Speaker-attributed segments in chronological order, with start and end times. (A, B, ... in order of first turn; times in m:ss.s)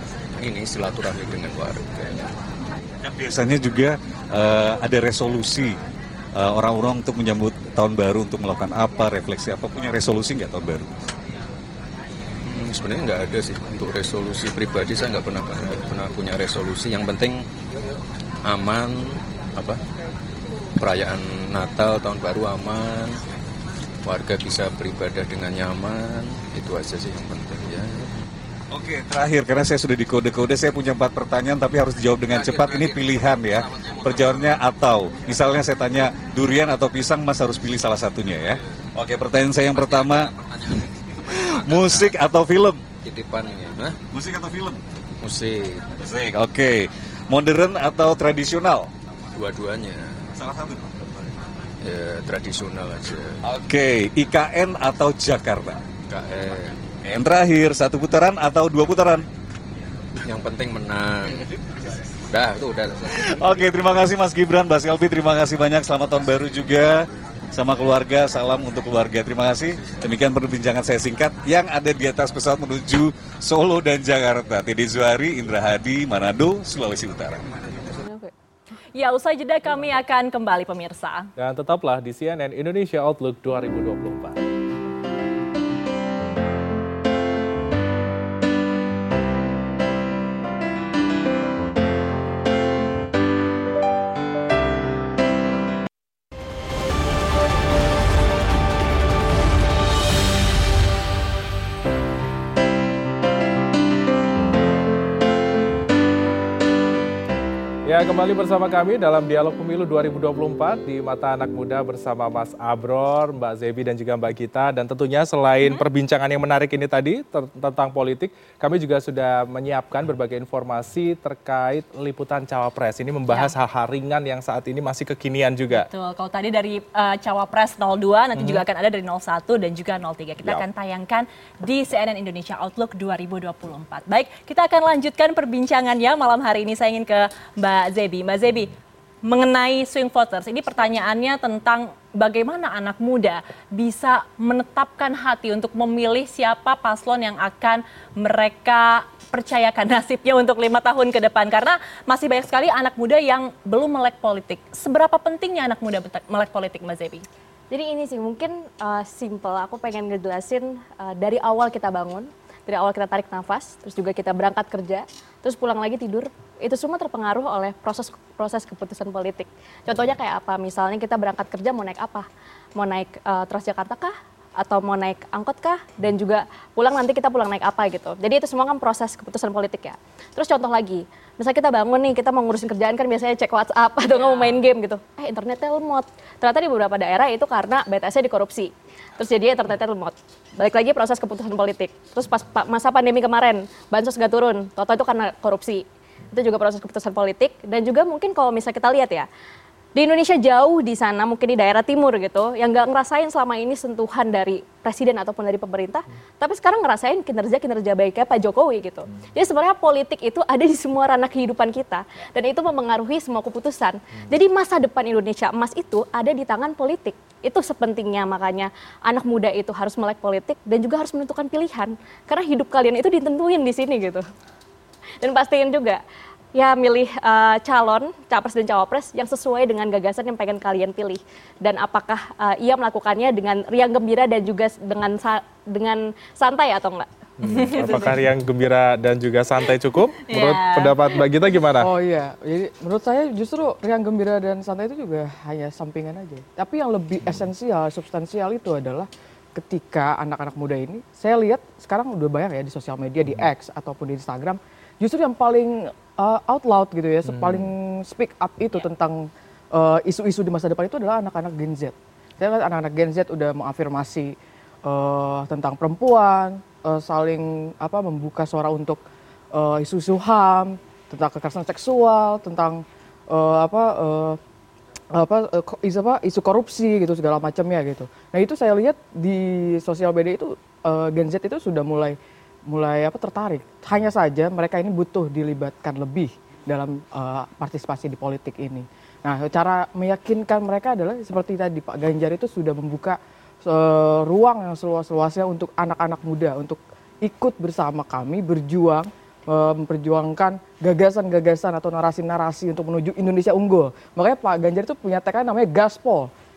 0:00.4-0:02.3 A
0:03.0-0:05.8 B
0:06.4-0:10.9 B
0:12.5-0:17.4 A
0:18.5-0:19.8 A
0:20.8-0:23.2 A
0:24.0-0:28.2 A
0:28.7-0:40.3 B
0:32.3-0:34.5 A
0:39.9-0:42.2 A
0:41.2-0:42.8 B
0:43.0-0:44.0 A
0:44.1-0:44.8 B
0:45.2-0:45.9 A
0:46.0-0:48.9 B
0:49.4-0:50.2 A
0:50.4-0:50.8 B
0:51.8-0:53.4 A
0:53.4-0:55.8 B
0:56.1-0:56.8 A
0:57.1-0:59.2 B
1:00.2-1:01.5 A
1:02.3-1:03.6 A
1:03.1-1:17.4 B
1:18.0-1:18.3 C
1:19.0-1:21.3 D
1:21.4-1:24.4 E
1:47.9-2:05.9 E
2:03.3-2:03.5 D
2:05.7-2:18.7 D
2:08.4-2:08.6 E
2:19.2-2:37.2 D
2:37.7-3:19.3 C
3:04.1-3:04.6 D
3:20.0-3:44.2 C
3:45.2-3:46.0 C
3:46.5-3:57.1 C
3:57.4-4:01.9 E
3:57.5-3:58.1 D
3:57.7-3:58.0 C
4:00.3-4:01.2 D
4:01.8-4:29.0 F
4:17.2-4:17.7 E
4:29.5-4:34.4 F
4:35.2-4:42.2 F
4:42.7-5:06.3 F